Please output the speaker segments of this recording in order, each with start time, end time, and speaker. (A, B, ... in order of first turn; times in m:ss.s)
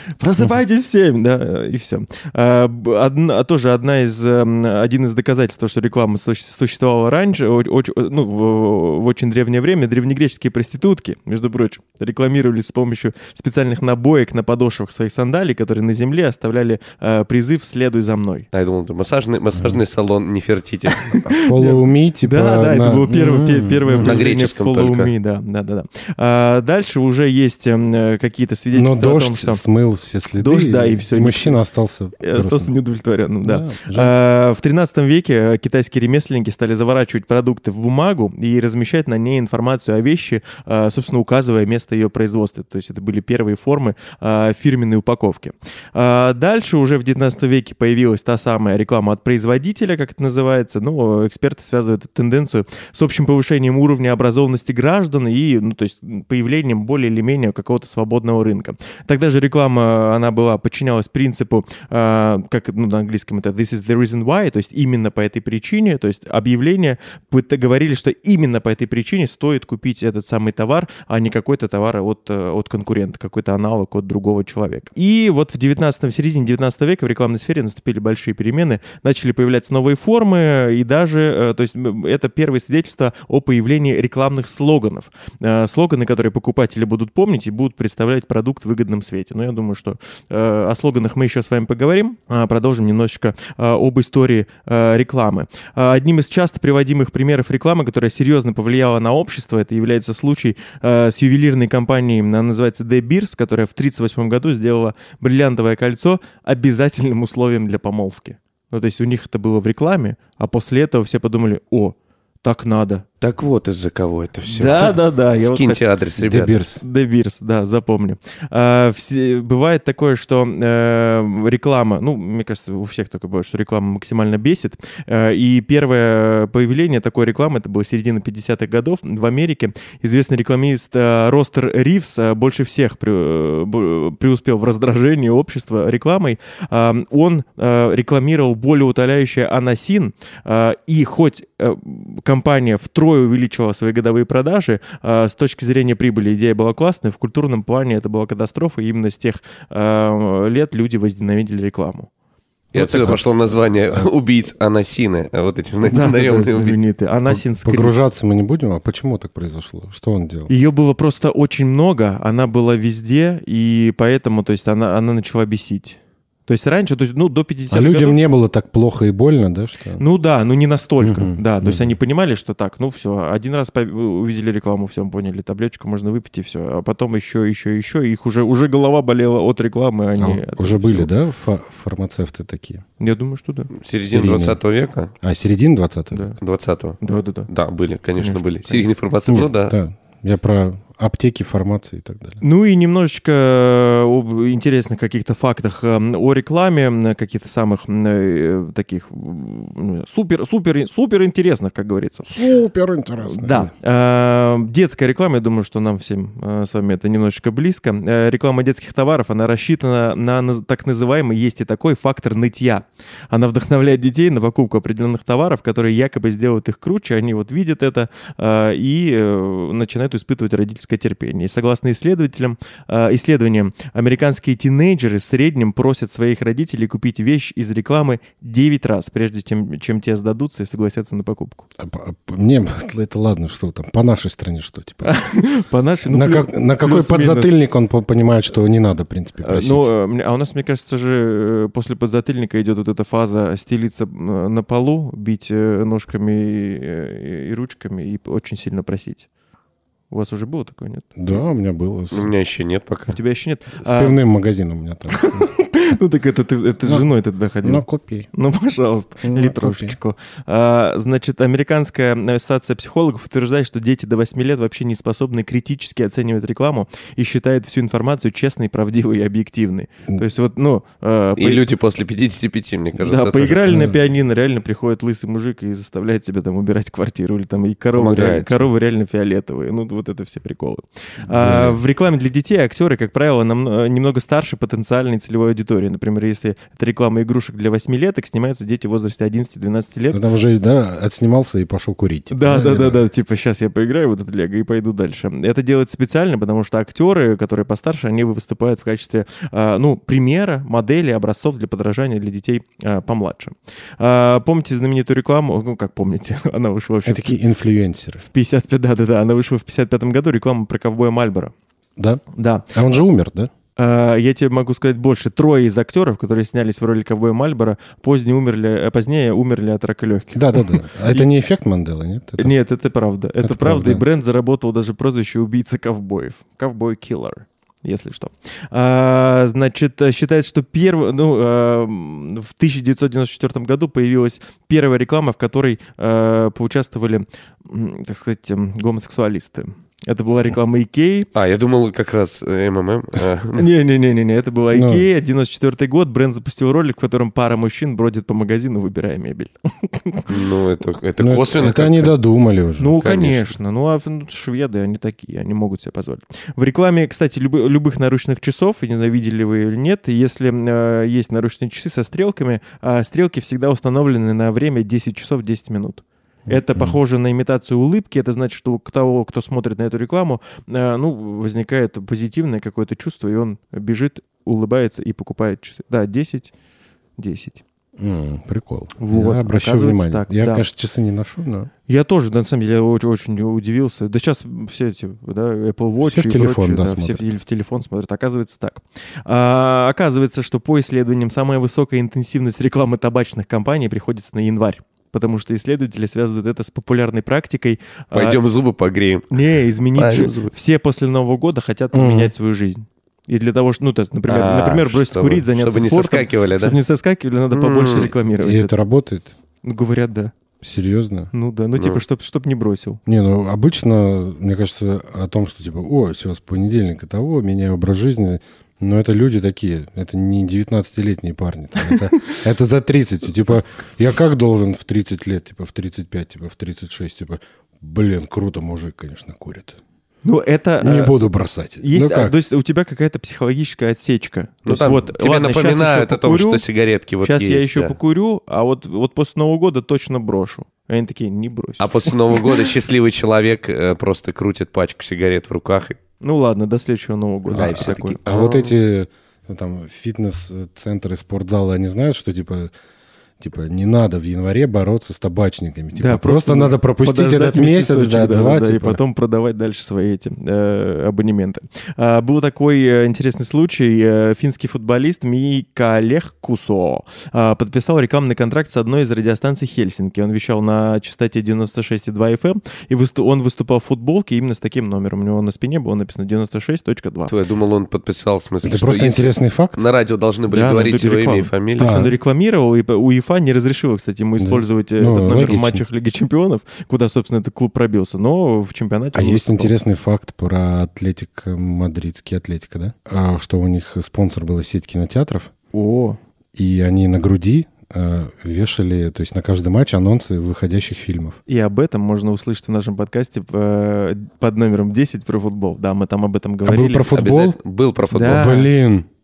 0:00.2-0:18.5 A
0:18.5-0:21.2 B
0:19.5-0:19.8 C
0:20.9-0:29.6 A
0:21.2-0:24.2 C
0:24.0-0:25.1 B
0:28.7-0:32.7 C
0:30.3-0:31.6 A
0:32.2-1:53.0 A
0:33.4-0:34.1 C
1:53.2-1:56.6 B
1:54.5-1:55.8 A
1:56.2-1:56.8 C
1:56.8-2:32.1 A
2:32.7-2:36.8 B
2:32.7-2:33.2 A
2:32.9-2:33.2 C
2:35.9-2:37.9 A
2:37.3-2:40.5 C
2:40.5-2:48.2 A
2:47.7-2:50.0 C
2:50.0-3:01.1 A
2:51.0-2:51.9 C
3:00.2-3:02.8 C
3:03.0-3:03.7 A
3:03.7-3:05.1 B
3:04.1-3:04.6 C
3:05.2-3:06.3 C
3:06.1-3:06.4 A
3:06.4-3:09.7 B
3:07.0-3:07.5 A
3:08.2-3:08.9 A
3:09.3-3:12.4 C
3:12.4-3:22.4 A
3:22.3-3:23.7 C
3:23.2-3:51.6 A
3:51.8-3:55.2 C
3:55.0-3:57.5 A
3:56.1-3:59.9 C
3:59.4-4:09.3 A
4:10.1-4:11.0 A
4:11.2-4:12.3 C
4:12.1-4:13.2 B
4:13.1-4:14.2 A
4:13.8-4:15.5 C
4:15.1-4:31.6 A
4:17.6-4:18.3 C
4:19.2-4:20.0 C
4:31.4-4:33.6 B
4:33.0-4:50.2 A
4:33.7-4:34.0 C
4:37.9-4:38.7 B
4:41.3-4:41.8 C
4:50.1-4:53.0 C
4:52.3-5:07.4 A
5:07.0-5:08.2 C
5:08.3-5:11.5 A
5:12.0-5:13.5 C
5:12.3-5:12.7 A
5:13.8-5:21.3 A
5:20.3-5:22.5 C
5:22.4-5:41.3 A
5:23.4-5:24.0 C
5:41.3-5:43.6 B
5:43.5-5:50.3 A
5:44.7-5:45.0 C
5:50.3-5:52.1 B
5:51.2-5:52.9 C
5:52.8-6:16.5 A
5:53.0-5:53.5 B
6:06.5-6:07.0 C
6:17.2-6:17.6 A
6:18.0-6:21.7 C
6:19.0-6:20.6 A
6:21.9-6:38.4 A
6:26.0-6:27.2 C
6:38.1-6:39.3 B
6:39.3-6:48.8 A
6:39.9-6:40.5 B
6:41.9-6:42.3 C
6:44.3-6:46.8 B
6:47.5-6:48.1 B
6:48.4-6:49.3 C
6:49.6-6:50.3 A
6:50.6-6:51.3 C
6:51.3-6:53.0 A
6:53.0-7:09.8 C
7:10.2-7:11.2 A
7:10.8-7:12.3 C
7:11.8-7:16.6 A
7:14.6-7:17.9 B
7:17.2-7:22.6 A
7:21.8-7:26.0 B
7:26.2-7:28.2 A
7:27.5-7:32.7 C
7:27.5-7:28.7 B
7:33.4-7:39.0 C
7:35.9-7:57.3 A
7:57.3-8:01.9 B
7:58.6-7:59.8 C
8:00.5-8:09.7 A
8:01.8-8:02.1 C
8:04.4-8:05.8 C
8:09.1-8:15.5 C
8:15.7-8:16.2 A
8:16.6-8:21.4 C
8:21.5-8:27.1 A
8:26.6-8:27.6 C
8:27.1-8:28.4 B
8:28.1-8:28.7 A
8:28.2-8:29.1 C